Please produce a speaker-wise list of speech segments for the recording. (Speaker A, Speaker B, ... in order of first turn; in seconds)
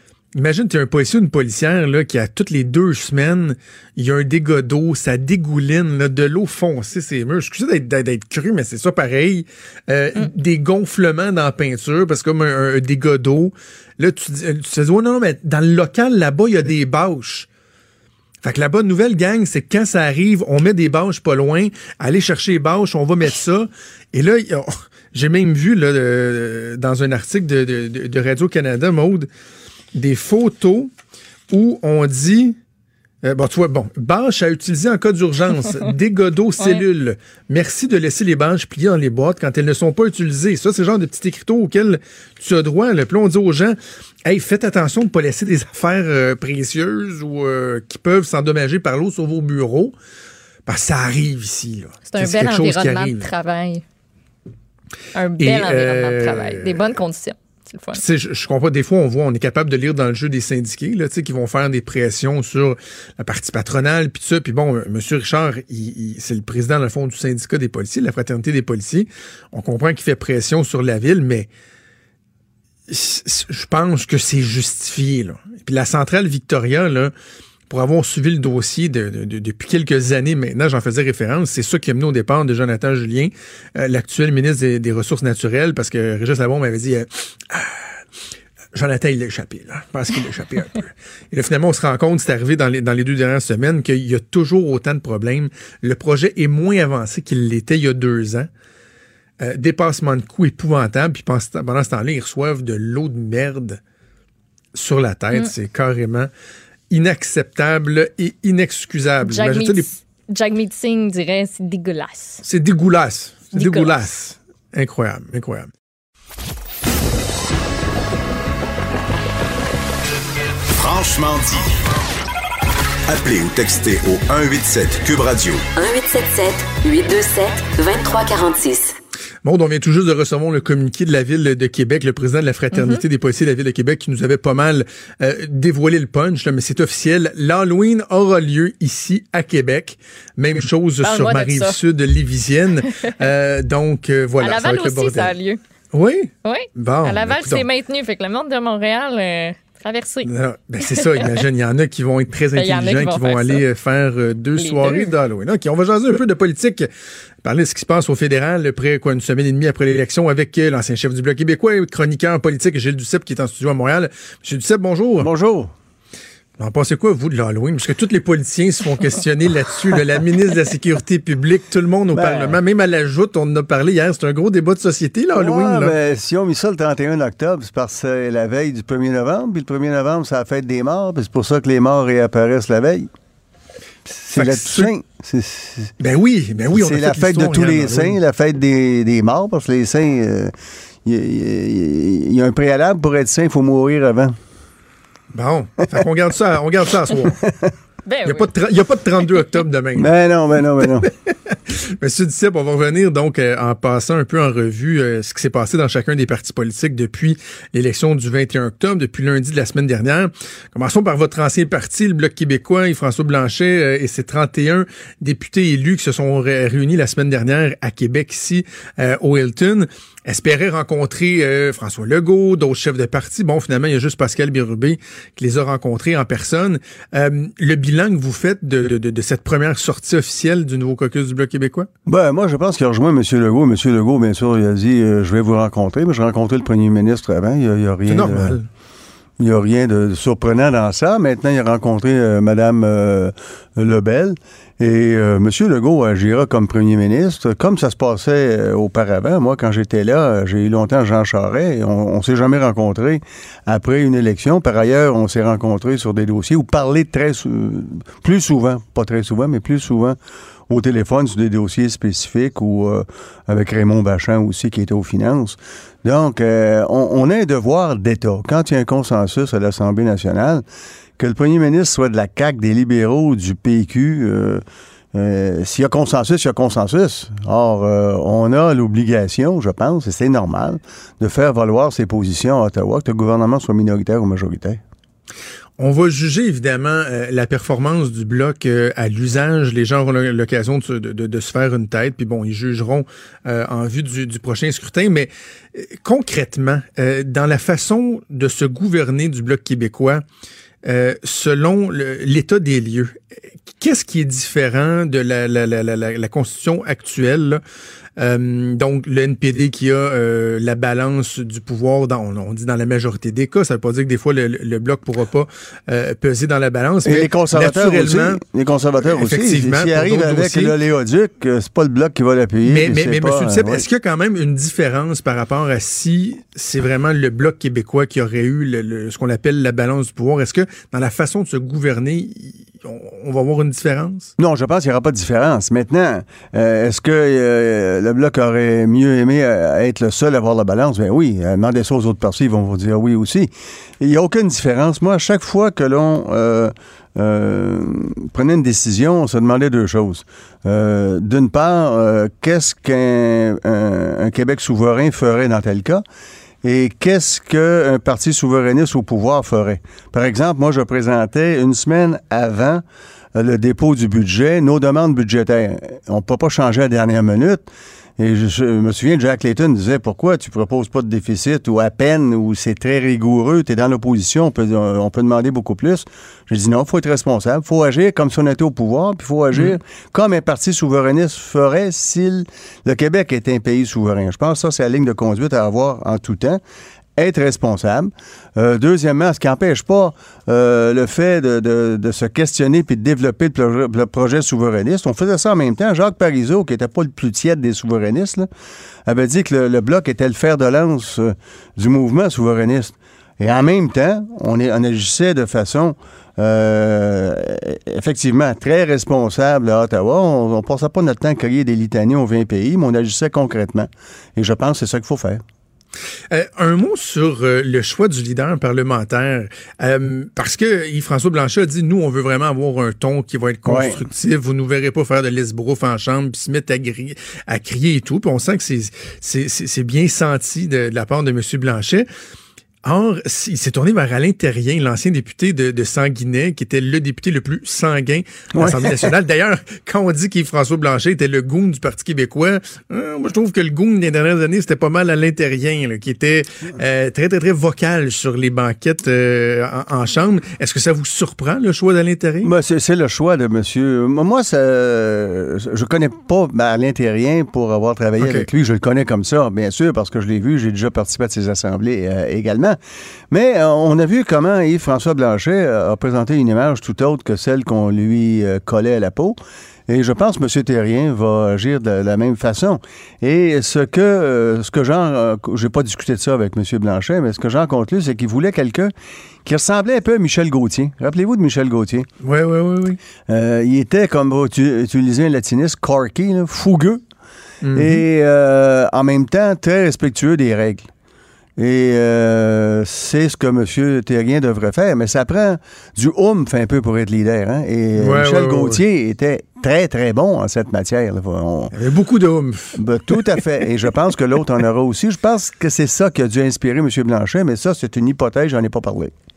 Speaker A: 0.3-17.5, 18.4-29.3, 29.9-30.9, 31.5-32.6, 33.2-50.0, 50.7-53.3, 55.4-56.9, 58.0-71.5, 72.9-77.1, 77.7-88.0, 88.7-98.5, 99.4-103.8, 104.7-106.3, 106.9-109.9, 112.4-115.7, 129.4-145.3, 145.9-147.7, 150.2-156.9, 157.4-165.3, 166.6-175.9, 184.3-184.9, 186.0-188.2, 195.3-197.4, 198.2-200.1, 200.8-231.9, 238.1-238.7, 285.8-300.2, 300.8-307.6, 308.2-318.4, 319.0-320.8, 322.6-334.3, 379.5-379.8, 416.3-432.1, 432.8-452.5, 458.2-458.5, 482.2-483.0, 487.6-488.0, 498.0-498.8, 501.7-503.4
Speaker B: 52.1-53.8, 55.1-58.0, 109.2-112.4, 113.5-114.0, 132.7-133.0, 141.0-141.8, 144.4-145.6, 146.4-150.3, 150.8-151.3, 152.6-153.6, 154.6-155.1, 198.1-198.5
Speaker C: 120.8-121.7, 123.1-125.6
Speaker D: 125.8-128.9
Speaker E: 165.2-165.7, 172.1-172.6, 175.4-183.1, 184.1-185.9, 186.7-190.5, 191.1-194.4, 200.0-201.1, 232.1-238.6, 239.4-260.2, 260.7-270.6, 271.2-274.6, 275.1-284.8, 317.1-323.8, 334.4-356.0, 356.6-362.8, 363.4-367.7, 368.2-386.6, 387.2-398.5, 399.1-415.4, 423.7-424.0, 438.6-439.1, 452.4-462.8, 463.3-478.9, 479.4-482.1, 483.3-487.0, 487.7-490.9, 491.6-501.7, 502.8-509.1